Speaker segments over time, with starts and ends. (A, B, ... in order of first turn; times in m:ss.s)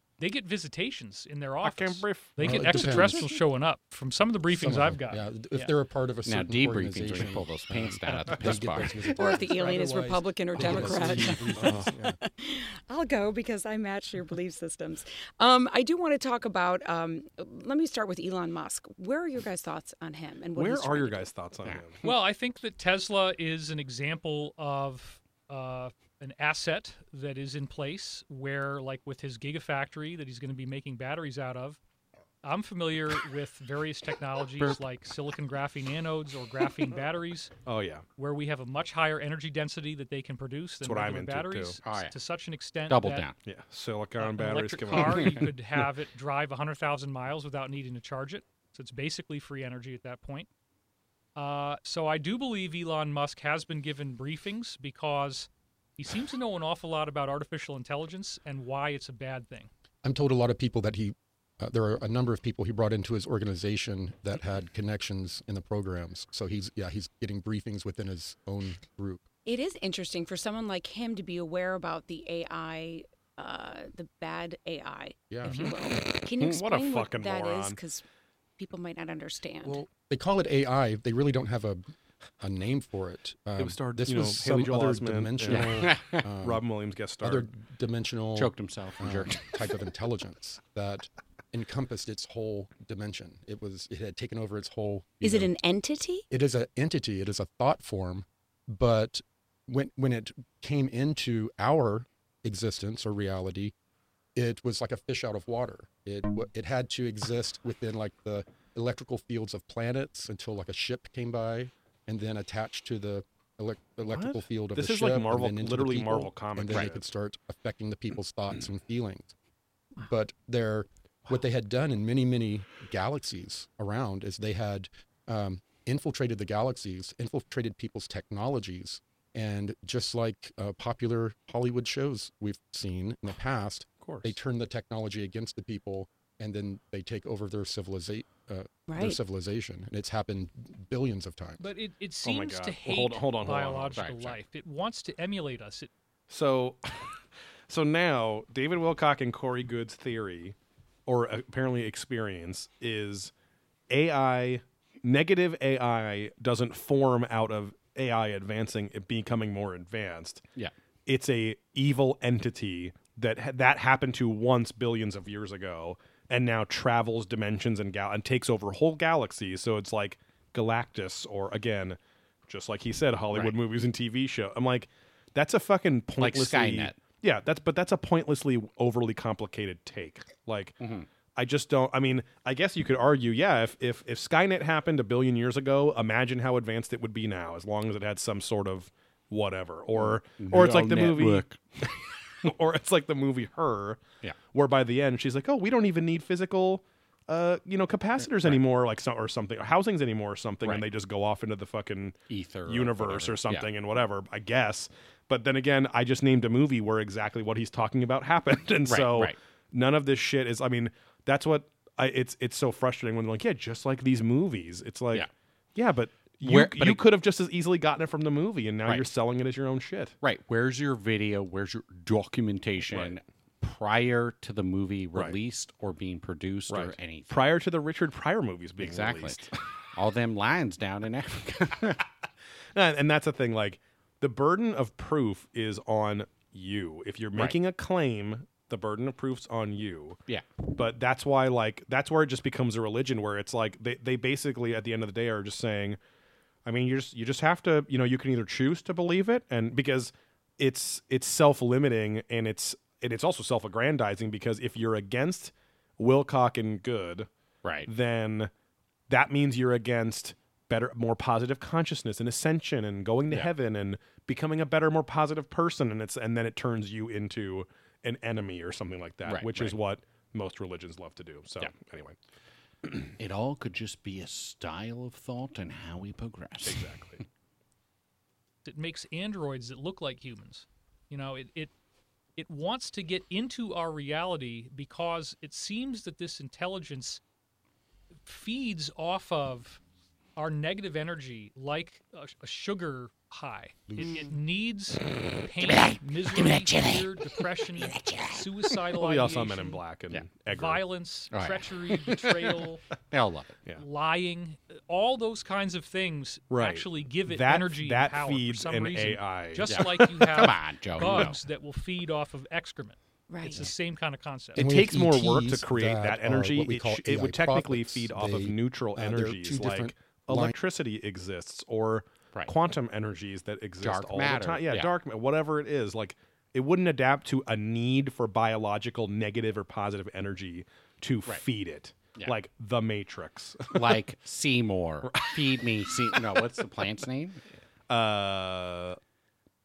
0:00.2-0:05.7 A
0:01.6-0:03.2 B
0:02.4-0:03.3 C
0:04.5-0:12.2 C
0:06.2-0:09.0 D
0:09.0-0:21.3 E
0:10.6-0:12.0 B
0:20.5-0:22.0 B
0:22.0-0:31.8 A
0:32.4-0:37.5 A
0:37.6-0:38.0 B
0:38.2-0:43.2 A
0:40.8-0:41.8 B
0:41.8-0:42.1 D
0:42.9-0:43.3 D
0:43.4-0:45.5 B
0:44.2-0:50.5 A
0:51.4-0:59.7 A
1:00.0-1:09.2 C
1:09.4-1:18.0 E
1:15.3-1:15.7 C
1:15.4-1:15.7 A
1:16.3-1:17.8 B
1:18.6-1:19.8 E
1:19.6-1:21.8 C
1:22.4-1:26.6 C
1:23.6-1:27.5 B
1:25.4-1:26.2 D
1:27.2-1:35.5 C
1:28.4-1:29.7 D
1:35.2-1:36.2 E
1:36.3-1:43.7 C
1:44.3-1:59.3 C
1:54.0-1:57.0 B
2:00.0-2:21.6 C
2:14.0-2:14.4 B
2:18.9-2:19.2 E
2:21.6-2:25.9 A
2:22.2-2:24.4 B
2:24.0-2:24.3 D
2:26.3-2:33.3 B
2:33.9-2:40.4 B
2:41.0-3:00.8 B
2:56.2-2:57.0 D
3:00.8-3:01.1 D
3:01.3-3:14.0 B
3:09.9-3:11.6 D
3:14.5-3:40.1 B
3:18.2-3:18.6 D
3:22.3-3:23.7 D
3:28.8-3:29.4 D
3:36.4-3:37.0 D
3:38.8-3:39.1 D
3:40.2-3:47.5 D
3:42.9-3:43.2 B
3:46.7-3:49.6 B
3:48.8-3:52.0 D
3:52.7-4:00.2 B
4:00.7-4:06.0 B
4:06.6-4:17.3 B
4:17.6-4:17.9 D
4:17.8-4:18.5 B
4:19.1-4:32.2 B
4:29.2-4:29.8 D
4:33.2-4:36.9 D
4:36.6-4:37.2 B
4:38.6-4:41.7 A
4:42.4-4:47.2 A
4:48.2-4:49.8 A
4:50.4-4:59.8 A
4:53.9-4:54.2 C
4:54.0-4:54.3 E
4:55.6-4:58.8 D
4:59.0-5:00.8 B
5:00.4-5:02.8 A
5:01.3-5:02.6 D
5:03.1-5:03.6 D
5:03.8-5:14.7 A
5:06.5-5:09.9 B
5:09.7-5:11.4 D
5:13.3-5:13.7 E
5:14.5-5:20.5 C
5:14.5-5:34.0 B
5:23.8-5:24.9 D
5:33.7-5:37.4 D
5:35.0-5:36.7 B
5:37.9-5:39.0 B